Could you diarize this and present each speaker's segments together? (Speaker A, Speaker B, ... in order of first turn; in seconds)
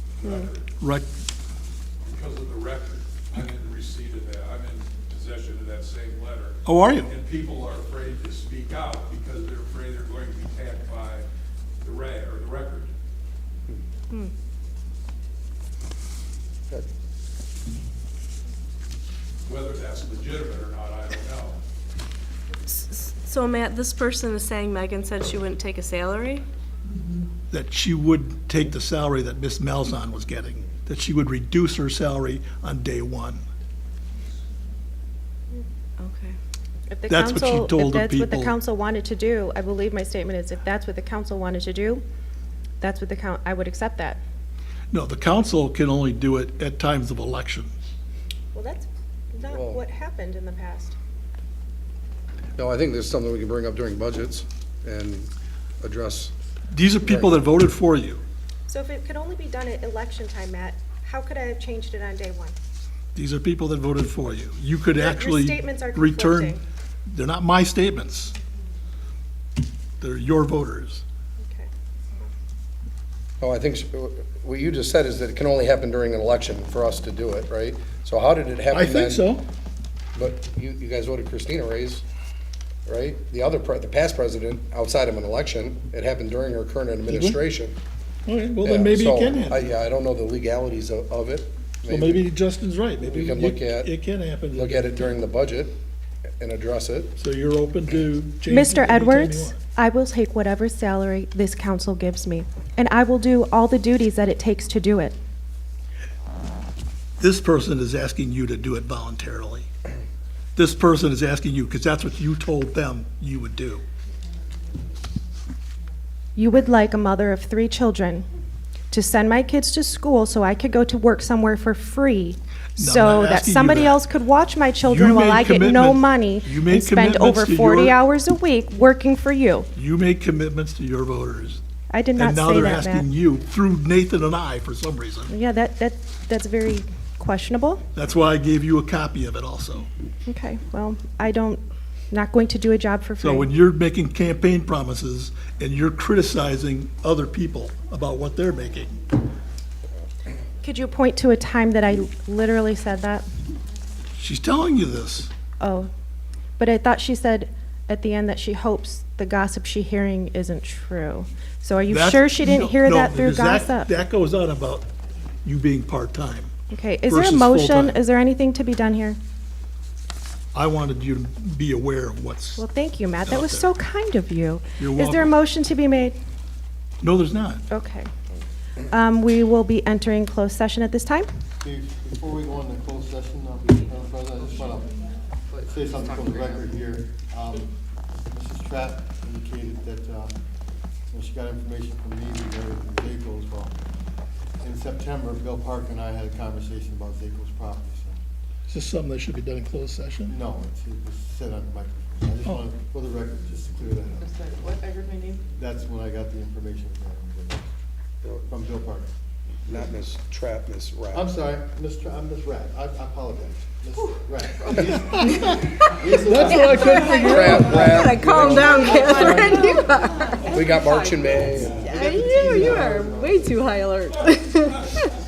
Speaker A: 0.2-0.6, 2.1-11.2, 11.8-12.9, 19.5-21.6
Speaker B: 0.8-1.1, 6.7-7.1, 27.5-33.4, 37.1-38.5, 44.9-47.7, 56.7-58.2, 63.1-66.5, 67.1-68.3, 70.0-71.0, 78.7-79.5, 87.1-87.4, 88.3-89.7, 91.9-95.2, 97.2-99.6, 107.2-109.7, 110.6-113.8, 122.8-124.0, 124.8-128.0, 129.8-131.6, 132.2-135.3, 137.9-139.9, 143.2-149.0, 154.2-155.3, 161.9-164.9, 165.4-166.5, 167.1-168.0, 170.5-172.7, 173.2-173.7, 174.8-175.3, 177.0-177.7, 198.7-200.4, 216.2-217.5
Speaker C: 22.7-26.4, 36.0-36.4, 216.6-220.5, 221.9-225.1
Speaker D: 36.9-42.0, 42.8-44.2, 48.5-51.0, 58.7-62.5, 65.0-66.6, 71.4-71.7, 98.5-105.2, 116.4-118.2, 118.9-129.7, 131.9-133.1, 135.3-137.8, 140.3-143.5, 150.6-153.2, 155.6-155.9, 156.6-163.9, 166.7-169.2, 172.6-176.2, 177.7-178.1, 178.9-181.3, 217.1-217.5
Speaker E: 49.5-49.8, 52.6-56.3, 57.0-57.4, 73.4-79.3, 80.1-82.0, 82.9-87.8, 88.6-92.2, 93.0-93.9, 94.5-95.8, 96.4-97.2, 209.7-211.3, 216.6-218.8, 220.5-221.8
Speaker F: 181.6-184.9, 185.7-187.7, 188.3-190.3, 191.1-193.7, 194.6-198.2, 200.3-204.3, 205.5-209.1, 211.1-219.8, 221.6-223.6
Speaker G: 185.5-186.8, 204.2-205.4, 214.6-215.0, 216.5-217.6, 218.7-222.3